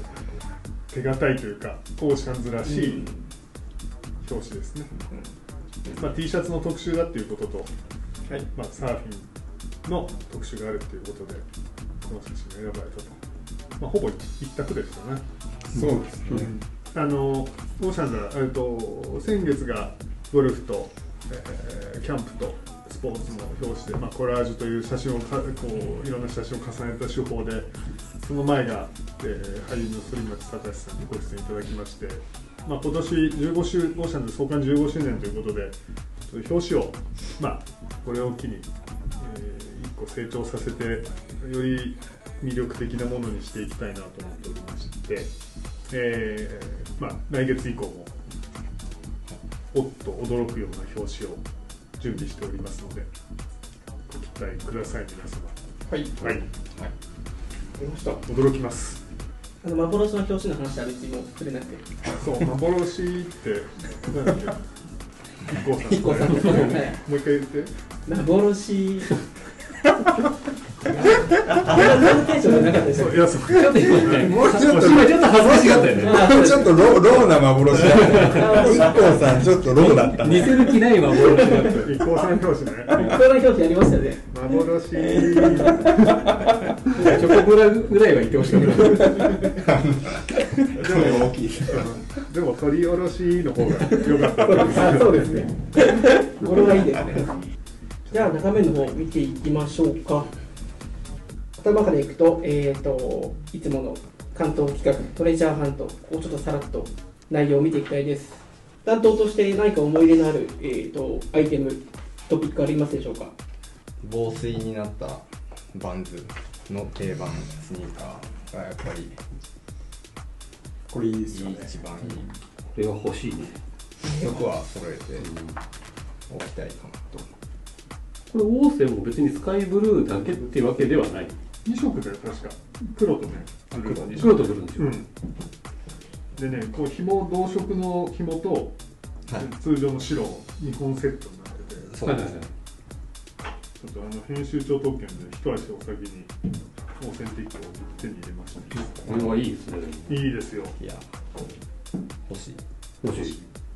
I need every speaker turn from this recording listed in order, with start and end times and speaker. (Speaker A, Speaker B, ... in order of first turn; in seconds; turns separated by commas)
Speaker A: 0.9-3.1, Speaker A: 4.2-4.9, Speaker B: 4.9-5.3, Speaker B: 5.8-6.1, Speaker A: 6.0-7.7, Speaker A: 8.4-9.3, Speaker A: 9.8-11.4, Speaker A: 12.0-13.2, Speaker A: 13.8-15.2, Speaker C: 15.7-16.5, Speaker A: 16.3-35.8, Speaker A: 36.2-45.3, Speaker A: 45.9-48.1, Speaker A: 49.7-51.4, Speaker A: 52.0-53.1, Speaker A: 54.1-55.6, Speaker B: 56.2-56.9, Speaker D: 57.8-58.2, Speaker A: 58.2-59.0, Speaker D: 59.6-61.8, Speaker A: 62.1-64.7, Speaker A: 65.4-67.7, Speaker D: 65.8-67.0, Speaker D: 68.1-69.1, Speaker D: 71.1-73.2, Speaker A: 72.9-75.3, Speaker E: 73.5-76.5, Speaker C: 73.5-80.8, Speaker D: 76.0-76.7, Speaker E: 77.7-78.9, Speaker D: 78.1-79.2, Speaker E: 79.7-81.9, Speaker A: 81.2-83.2, Speaker D: 81.2-81.8, Speaker D: 82.9-84.2, Speaker A: 84.3-86.3, Speaker E: 86.9-89.4, Speaker B: 89.4-92.2, Speaker A: 90.9-95.3, Speaker D: 94.5-97.3, Speaker D: 98.1-100.3, Speaker D: 101.6-113.3, Speaker B: 114.0-119.2, Speaker C: 120.9-121.7, Speaker B: 121.3-122.3, Speaker E: 122.7-123.6, Speaker B: 124.0-125.3, Speaker E: 125.2-125.6, Speaker B: 126.3-127.3, Speaker E: 128.3-131.3, Speaker A: 131.6-135.1, Speaker E: 133.8-134.9, Speaker A: 136.3-138.8, Speaker A: 139.4-141.9, Speaker B: 141.8-142.3, Speaker E: 142.0-142.5, Speaker A: 143.8-146.4, Speaker A: 146.9-149.3, Speaker E: 149.1-150.3, Speaker A: 150.1-150.8, Speaker B: 150.8-151.1, Speaker B: 152.2-152.6, Speaker E: 153.0-153.3, Speaker A: 153.1-153.4